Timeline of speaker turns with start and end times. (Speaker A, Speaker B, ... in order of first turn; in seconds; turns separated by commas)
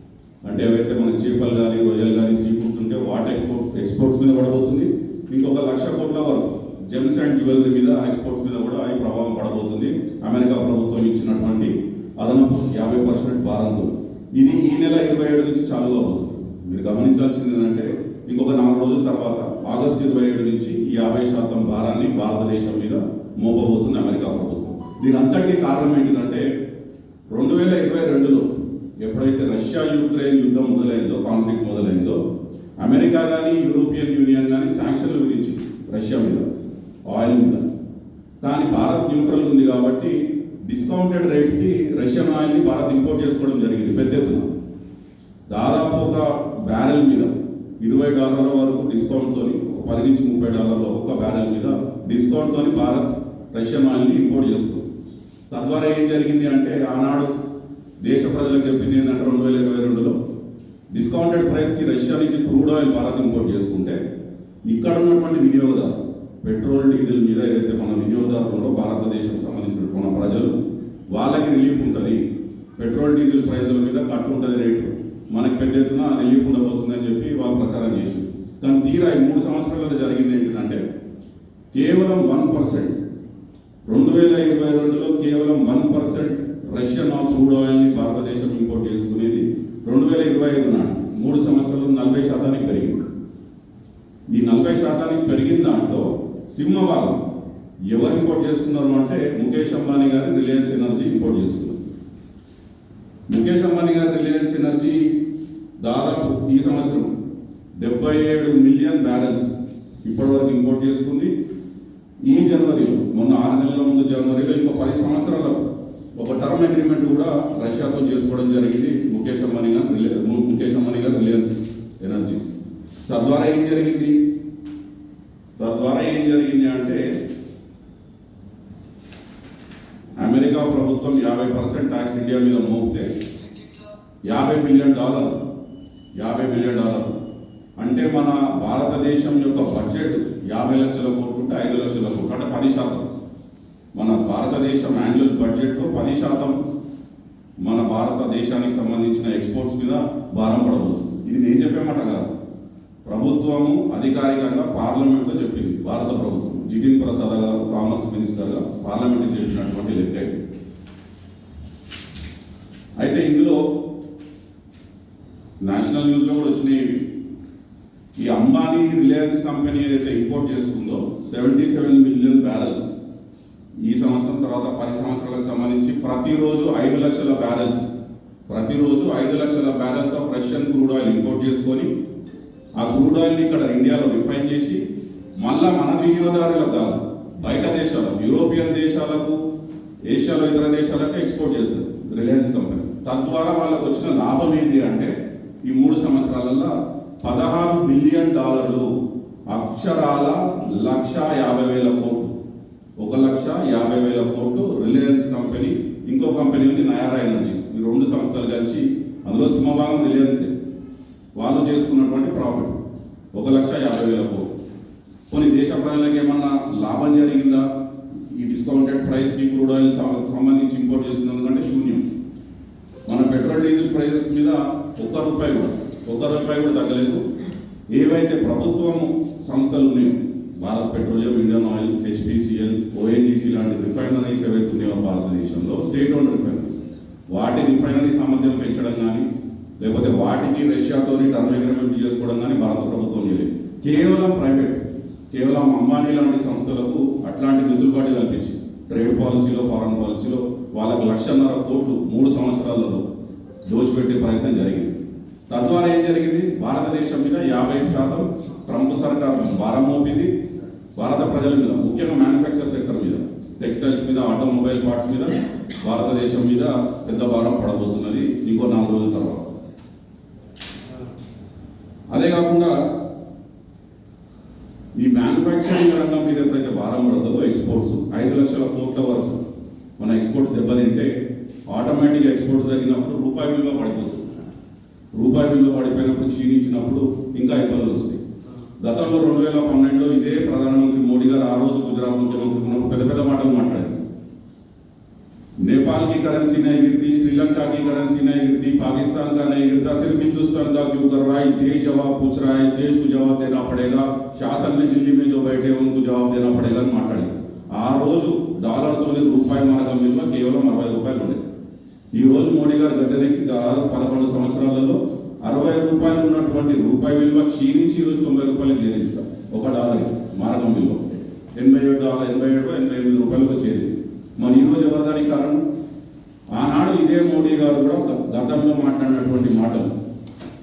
Speaker A: 0.4-26.5, Speaker A: 27.3-28.5, Speaker A: 29.0-32.2, Speaker A: 32.8-36.5, Speaker A: 37.1-37.6, Speaker A: 38.4-44.5, Speaker A: 45.5-54.8, Speaker A: 55.5-57.3, Speaker A: 58.0-60.2, Speaker A: 60.9-64.0, Speaker A: 64.7-70.5, Speaker A: 71.1-72.2, Speaker A: 72.8-80.8, Speaker A: 81.7-83.0, Speaker A: 83.9-93.0, Speaker A: 94.3-97.2, Speaker A: 97.9-101.8, Speaker A: 103.3-105.1, Speaker A: 105.8-107.1, Speaker A: 107.8-109.5, Speaker A: 110.0-111.3, Speaker A: 112.3-122.5, Speaker A: 123.0-124.2, Speaker A: 125.6-127.0, Speaker A: 130.2-133.1, Speaker A: 134.3-135.4, Speaker A: 136.2-137.1, Speaker A: 137.8-143.1, Speaker A: 143.9-146.6, Speaker A: 147.6-152.2, Speaker A: 153.1-160.4, Speaker A: 163.0-163.6, Speaker A: 165.6-167.0, Speaker A: 168.2-173.0, Speaker A: 173.8-177.9, Speaker A: 178.5-181.9, Speaker A: 182.8-184.8, Speaker A: 185.4-189.4, Speaker A: 190.1-195.1, Speaker A: 195.7-198.9, Speaker A: 199.5-202.3, Speaker A: 203.0-210.5, Speaker A: 211.4-212.8, Speaker A: 213.3-214.5, Speaker A: 215.3-217.7, Speaker A: 218.3-222.0, Speaker A: 223.1-227.2, Speaker A: 227.9-236.8, Speaker A: 237.3-239.3, Speaker A: 239.8-244.8, Speaker A: 245.3-253.1, Speaker A: 253.7-254.9, Speaker A: 255.5-260.3, Speaker A: 261.0-269.5, Speaker A: 272.1-272.7, Speaker A: 275.0-279.4, Speaker A: 280.0-281.1, Speaker A: 281.7-284.4, Speaker A: 285.1-288.2, Speaker A: 288.8-294.0, Speaker A: 295.6-311.4, Speaker A: 312.1-325.6, Speaker A: 326.5-329.9